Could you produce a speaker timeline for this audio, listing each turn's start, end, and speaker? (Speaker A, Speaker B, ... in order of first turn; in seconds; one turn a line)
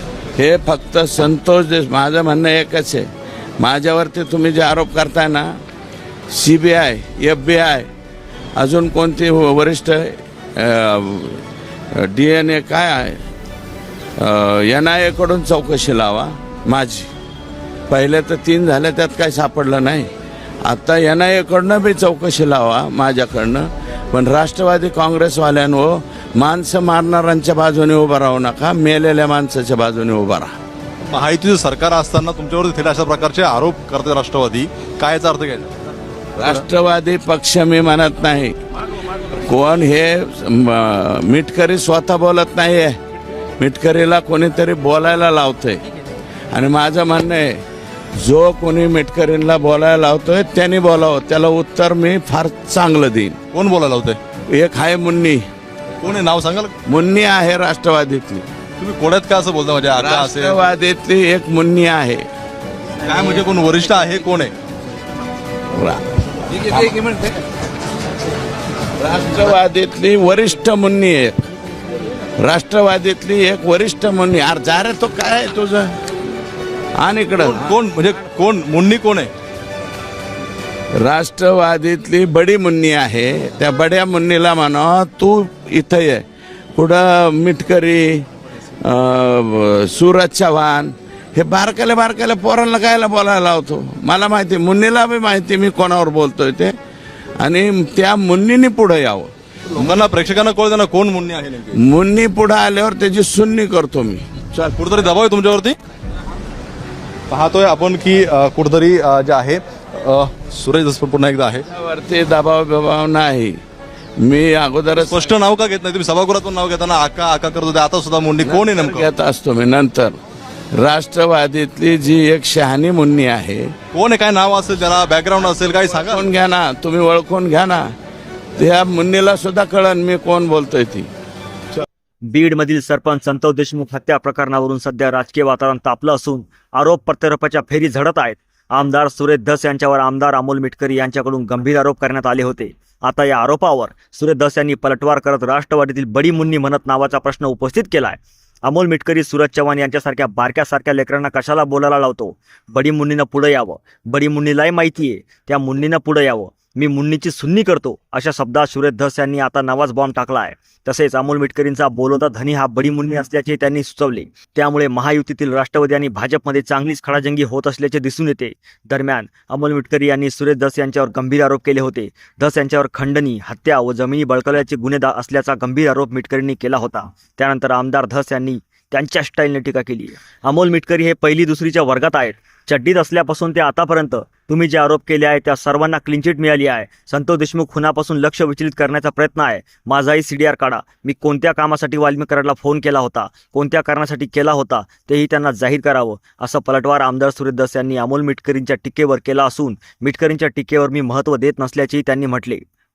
Speaker A: 0.3-3.1
Speaker A: 3.6-5.5
Speaker A: 6.3-7.9
Speaker A: 8.6-13.2
Speaker A: 14.2-17.1
Speaker A: 17.9-20.1
Speaker A: 20.6-30.5
Speaker B: 31.1-35.7
Speaker A: 36.4-38.6
Speaker A: 39.3-43.0
Speaker A: 43.6-45.8
Speaker A: 46.5-47.6
Speaker A: 48.2-53.4
Speaker B: 53.5-54.2
Speaker A: 54.5-55.4
Speaker B: 56.0-56.7
Speaker A: 56.9-58.4
Speaker B: 58.8-60.6
Speaker A: 60.0-62.3
Speaker B: 63.0-64.5
Speaker A: 65.8-67.4
Speaker A: 69.0-71.4
Speaker A: 72.4-76.0
Speaker A: 77.0-77.7
Speaker B: 77.4-79.3
Speaker A: 81.0-86.2
Speaker A: 86.7-88.2
Speaker A: 88.8-96.7
Speaker A: 97.4-99.3
Speaker B: 99.7-101.8
Speaker A: 101.8-104.7
Speaker B: 104.7-105.8
Speaker B: 107.3-111.6
Speaker A: 111.7-113.6
Speaker A: 114.2-115.3
Speaker B: 114.9-119.1
Speaker A: 118.4-120.2
Speaker A: 120.7-123.7
Speaker B: 123.9-126.2
Speaker A: 125.9-127.9
Speaker A: 128.6-131.1
Speaker C: 132.3-202.6